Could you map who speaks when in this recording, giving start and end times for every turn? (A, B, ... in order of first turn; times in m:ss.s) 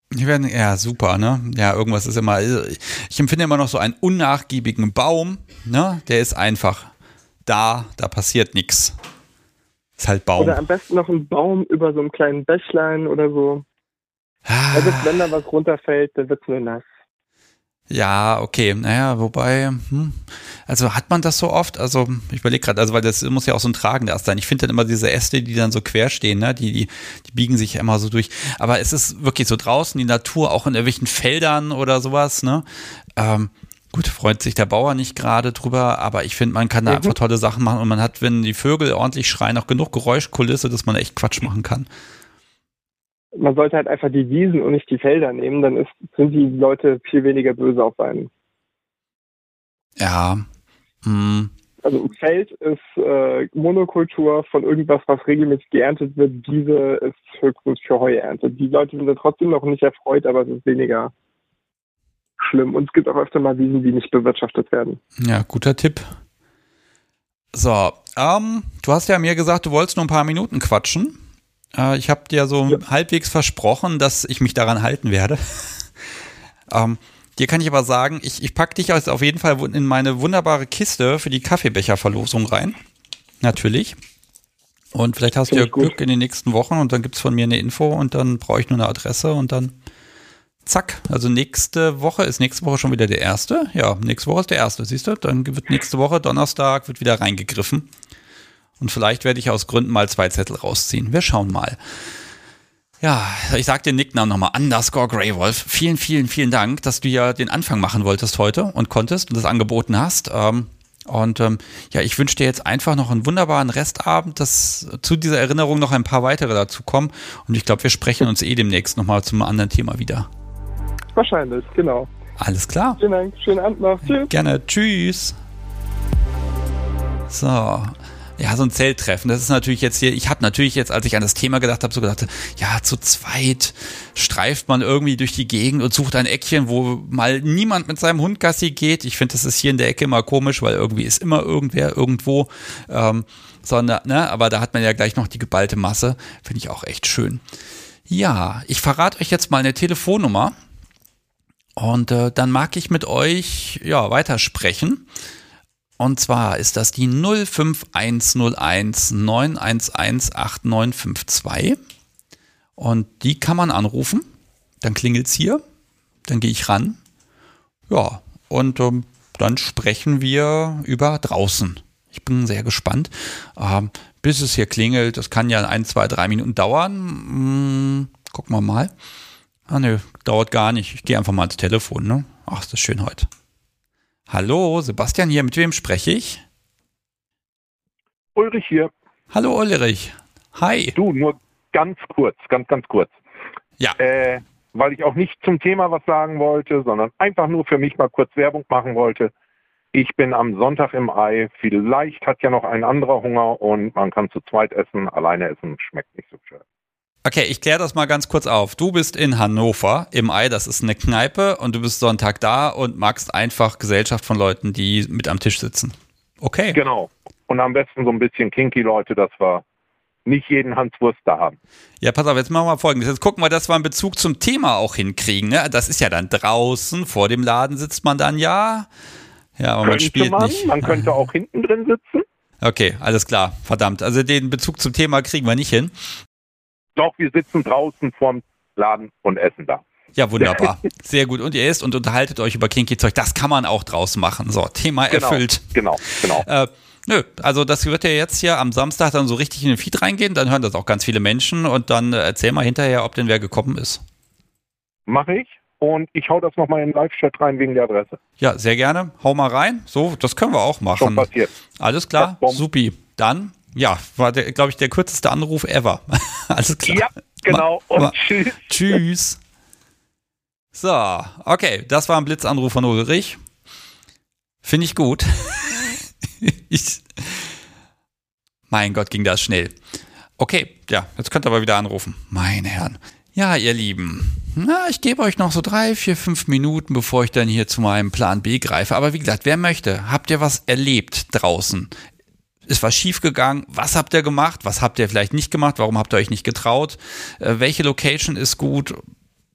0:00.1-0:06.9 A
0:07.4-0:09.0 A
0:10.0-0:10.6 A
0:10.4-0:13.6 B
0:14.4-0:15.2 A
0:14.7-0:16.8 B
0:17.9-0:41.9 A
0:36.9-0:37.1 B
0:43.4-0:48.3 B
0:50.0-0:50.4 A
0:51.0-0:51.5 A
0:51.8-1:01.1 B
1:02.4-1:05.0 B
1:05.2-1:06.1 A
1:07.5-1:11.2 A
1:11.7-1:15.9 A
1:16.7-1:22.8 A
1:23.4-1:24.0 A
1:24.9-1:29.7 A
1:25.5-1:25.9 B
1:30.6-1:37.9 A
1:38.8-1:41.8 A
1:43.0-2:00.3 A
2:01.1-2:02.1 B
2:02.4-2:03.0 A
2:03.0-2:04.3 B
2:04.0-2:05.4 A
2:07.3-2:27.4 A
2:28.1-2:30.5 A
2:31.8-2:35.1 A
2:36.0-2:41.8 A
2:42.8-2:44.3 A
2:44.8-2:45.6 A
2:46.3-2:47.0 A
2:47.9-2:58.9 A
2:59.7-3:03.3 A
3:04.3-3:06.4 A
3:08.3-3:08.9 C
3:09.3-3:11.0 A
3:11.0-3:13.2 C
3:14.0-3:19.3 C
3:19.9-3:26.6 C
3:27.2-3:36.8 A
3:36.7-3:39.6 C
3:40.2-3:41.6 C
3:42.0-3:48.9 A
3:49.6-3:50.9 A
3:49.8-3:52.2 C
3:52.6-3:55.9 A
3:57.0-3:59.8 C
4:00.2-4:14.0 A
4:00.4-4:00.7 C
4:05.1-4:06.4 C
4:15.1-4:18.2 C
4:18.4-4:29.4 A
4:21.0-4:21.5 C
4:22.2-4:22.6 C
4:26.8-4:28.7 C
4:30.7-4:33.4 A
4:34.6-4:37.6 A
4:38.7-4:39.7 A
4:40.4-4:51.9 A
4:52.7-4:59.0 A